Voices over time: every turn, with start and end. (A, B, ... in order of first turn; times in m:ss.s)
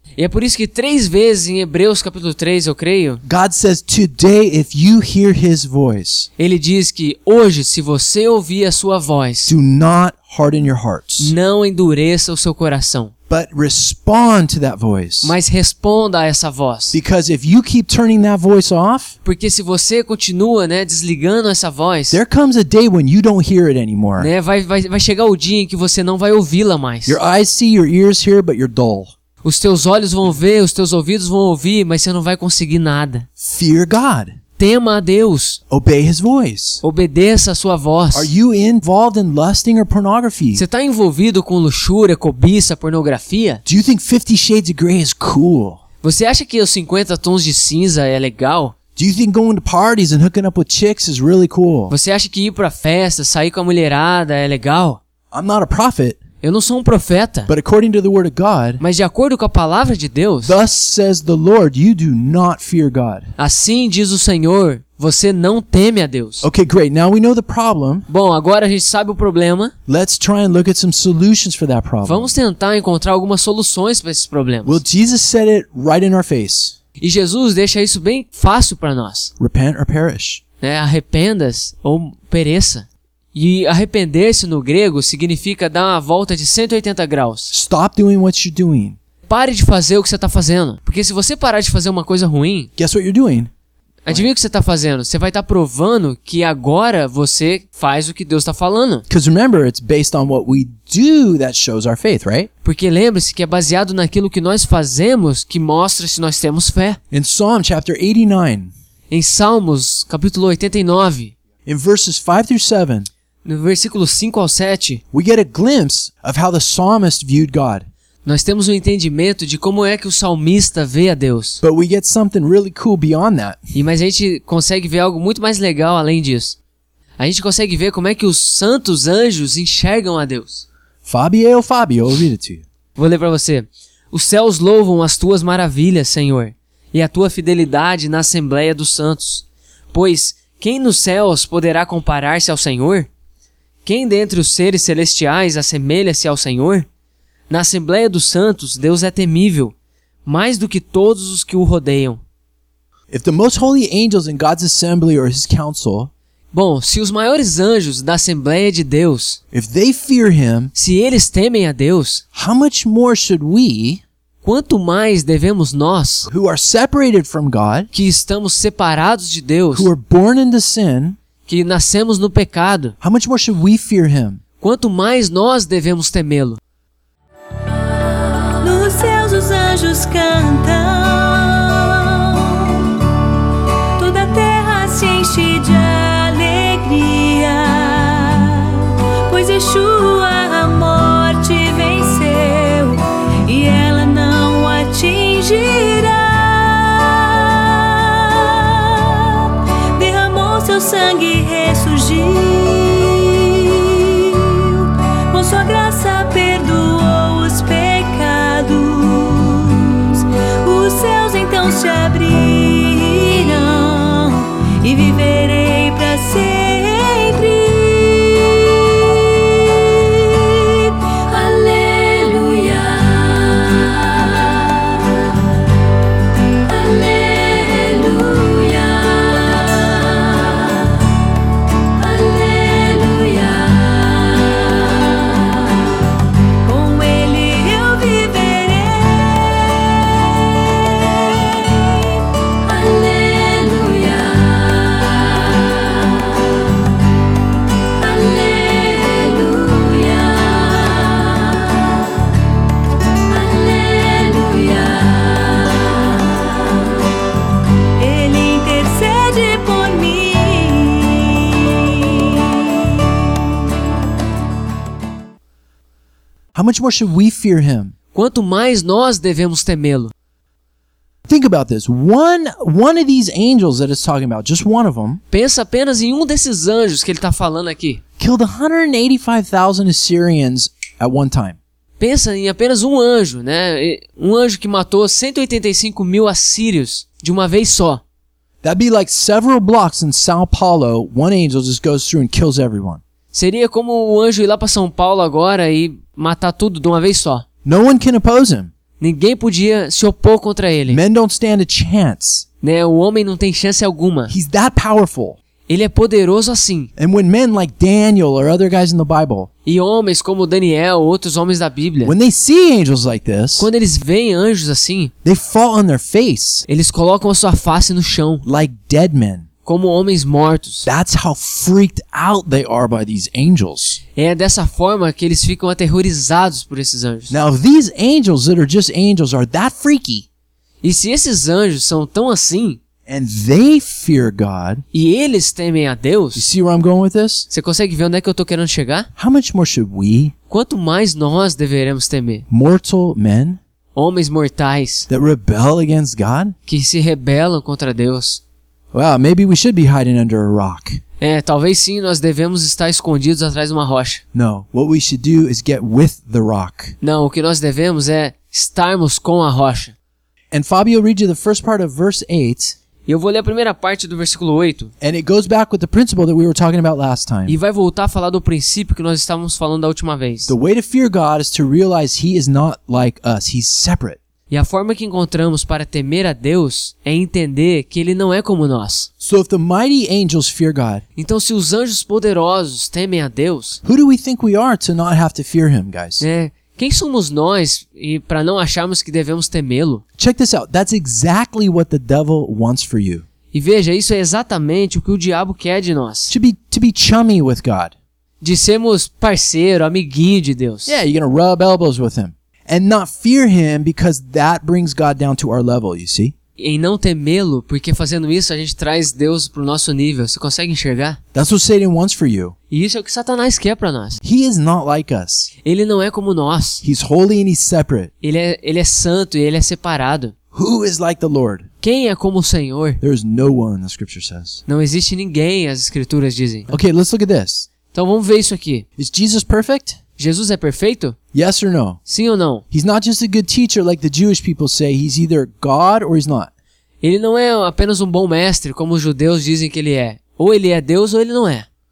0:00.2-0:03.2 A
0:03.2-0:06.3 B
0:06.4-0:09.5 A
0:09.5-0:11.3 B
0:11.2-0:13.1 A
0:13.3-0:15.4 B
0:15.2-0:17.0 A
0:16.9-0:19.1 B
0:19.2-0:22.2 A
0:22.1-0:24.3 B
0:24.2-0:27.2 A
0:27.1-0:29.1 B
0:29.4-0:33.3 A
0:33.4-0:34.4 B
0:34.6-0:35.6 A
0:35.7-0:36.8 B
0:36.8-0:38.3 A
0:38.1-0:40.6 B
0:40.6-0:43.6 A
0:43.6-0:45.8 B
0:46.0-0:48.8 A
0:49.0-0:51.9 B
0:51.9-0:55.0 A
0:55.3-0:56.2 B
0:56.4-0:57.5 A
0:57.5-0:58.8 B
0:58.8-1:00.6 A
1:00.4-1:03.3 B
1:03.4-1:06.4 A
1:06.4-1:08.1 B
1:08.1-1:09.7 A
1:09.9-1:12.3 B
1:12.0-1:14.8 A
1:14.6-1:16.8 B
1:17.0-1:19.3 A
1:19.4-1:20.4 B
1:20.6-1:27.5 A
1:27.5-1:29.0 B
1:29.3-1:32.7 A
1:32.8-1:33.5 B
1:34.0-1:39.0 A
1:39.1-1:42.5 B
1:42.6-1:47.0 A
1:47.1-1:48.7 B
1:49.1-1:51.3 A
1:51.6-1:53.1 B
1:53.4-1:55.0 A
1:55.1-1:57.9 B
1:58.2-2:01.6 A
2:01.6-2:03.6 B
2:03.7-2:06.6 A
2:07.2-2:10.6 A
2:11.0-2:12.6 B
2:13.0-2:23.1 A
2:23.8-2:26.9 A
2:27.5-2:29.7 A
2:30.2-2:32.2 A
2:33.1-2:36.1 B
2:36.5-2:39.4 A
2:39.5-2:40.7 B
2:40.8-2:42.2 A
2:42.4-2:44.0 B
2:44.4-2:46.3 A
2:46.3-2:47.9 B
2:47.9-2:49.9 A
2:49.7-2:51.2 B
2:51.5-2:53.0 A
2:53.0-2:54.4 B
2:54.6-2:56.6 A
2:58.5-3:02.9 C
3:04.0-3:45.0 C
3:46.6-3:51.0 C
3:51.8-3:55.7 C
3:56.6-4:06.2 C
4:08.0-4:12.1 C
4:13.3-4:16.4 C
4:18.0-4:23.2 C
4:26.5-4:27.9 B
4:28.1-4:30.1 A
4:31.3-4:35.2 B
4:35.3-4:38.0 A
4:38.2-4:41.6 B
4:42.0-4:48.0 A
4:48.6-4:53.0 B
4:53.3-4:57.4 A
4:57.6-4:58.7 B
4:59.0-5:01.0 A
5:00.9-5:02.5 B
5:02.6-5:04.3 A
5:04.3-5:05.4 B
5:05.7-5:06.9 A
5:07.0-5:09.5 B
5:09.6-5:12.1 A
5:12.0-5:13.7 B
5:13.6-5:15.1 A
5:15.2-5:16.6 B
5:16.7-5:18.4 A
5:18.4-5:19.5 B
5:19.6-5:20.9 A
5:20.8-5:24.0 B
5:24.1-5:27.4 A
5:27.3-5:30.2 B
5:30.8-5:32.8 A
5:33.1-5:34.8 B
5:34.9-5:36.5 A
5:36.4-5:37.5 B
5:37.5-5:39.1 A
5:39.2-5:40.3 B
5:40.5-5:42.4 A
5:42.5-5:43.6 B
5:44.0-5:45.1 A
5:45.1-5:46.6 B
5:46.7-5:48.4 A
5:48.9-5:51.0 B
5:51.2-5:54.2 A
5:54.3-5:57.0 B
5:57.0-5:59.9 A
6:00.5-6:02.8 B
6:03.1-6:04.9 A
6:05.0-6:07.6 B
6:07.5-6:10.5 A
6:10.5-6:14.2 B
6:14.5-6:19.1 A
6:19.2-6:21.0 B
6:21.2-6:23.8 A
6:23.8-6:26.2 B
6:26.2-6:30.0 A
6:30.2-6:33.2 B
6:33.5-6:36.3 A
6:36.3-6:37.9 B
6:38.4-6:40.9 A
6:40.9-6:46.3 B
6:46.6-6:51.2 A
6:51.3-6:52.6 B
6:52.7-6:54.2 A
6:54.2-6:55.5 B
6:55.6-6:56.8 A
6:56.8-6:58.1 B
6:58.2-7:00.3 A
7:00.5-7:01.7 B
7:01.8-7:03.0 A
7:03.0-7:04.6 B
7:04.7-7:06.7 A
7:06.7-7:07.7 B
7:07.9-7:08.8 A
7:09.0-7:10.0 B
7:10.2-7:11.2 A
7:11.3-7:12.0 B
7:12.1-7:12.6 A
7:12.7-7:16.5 B
7:17.0-7:21.7 A